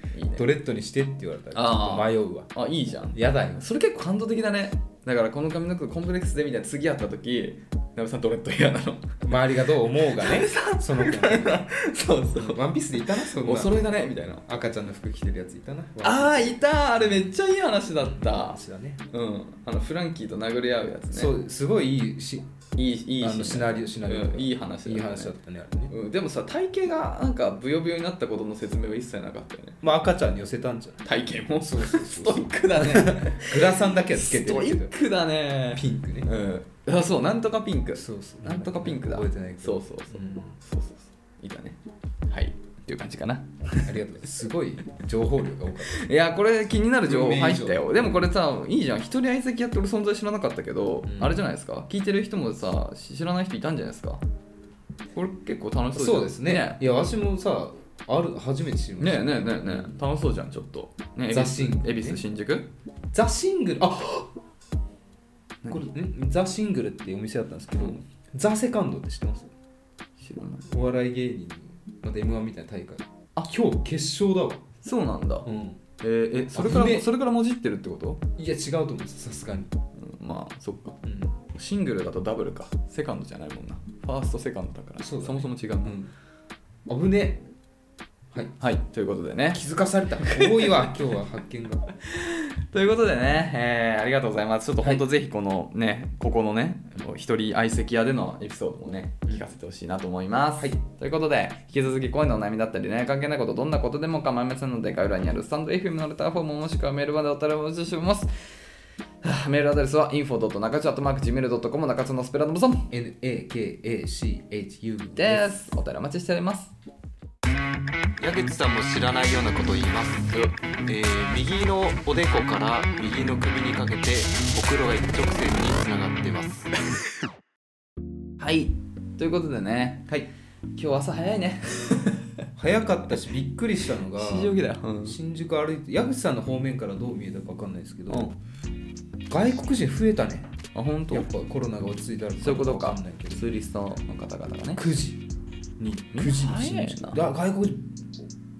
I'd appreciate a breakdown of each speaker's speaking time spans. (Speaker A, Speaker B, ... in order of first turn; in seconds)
Speaker A: 0.1-0.5, 1.5-9.2, 10.1-12.6, 13.1-14.5, 16.0-21.4, 22.8-25.3, 25.9-29.8, 31.0-44.0, 45.9-54.2, 55.1-56.8, 59.0-62.7, 70.2-70.7, 74.8-75.5, 76.0-78.2, 80.0-81.0, 81.5-86.0, 88.6-89.6, 90.2-90.9, 92.0-108.3, 109.2-112.9, 115.2-116.7, 128.4-130.1, 130.8-132.3, 134.2-135.2, 140.7-141.3, 142.4-144.8, 146.1-147.2
Speaker B: 0.3-2.5, 3.1-3.6, 9.2-11.7, 12.3-16.6, 18.1-19.0, 21.1-22.5, 23.2-25.9, 29.8-31.0, 31.6-35.0, 35.7-36.3, 38.0-40.6, 43.7-46.0, 47.0-48.0, 51.0-51.5, 55.9-60.0, 61.3-62.2, 63.1-64.3, 65.7-69.5, 70.7-74.7, 75.4-75.8, 76.5-77.1, 78.4-79.7, 81.0-81.4, 85.0-86.1, 86.9-87.5, 89.5-91.9, 112.9-115.7, 132.6-138.3, 139.3-140.5, 141.1-143.5, 144.8-145.2, 145.8-148.3
Speaker C: 118.2-126.7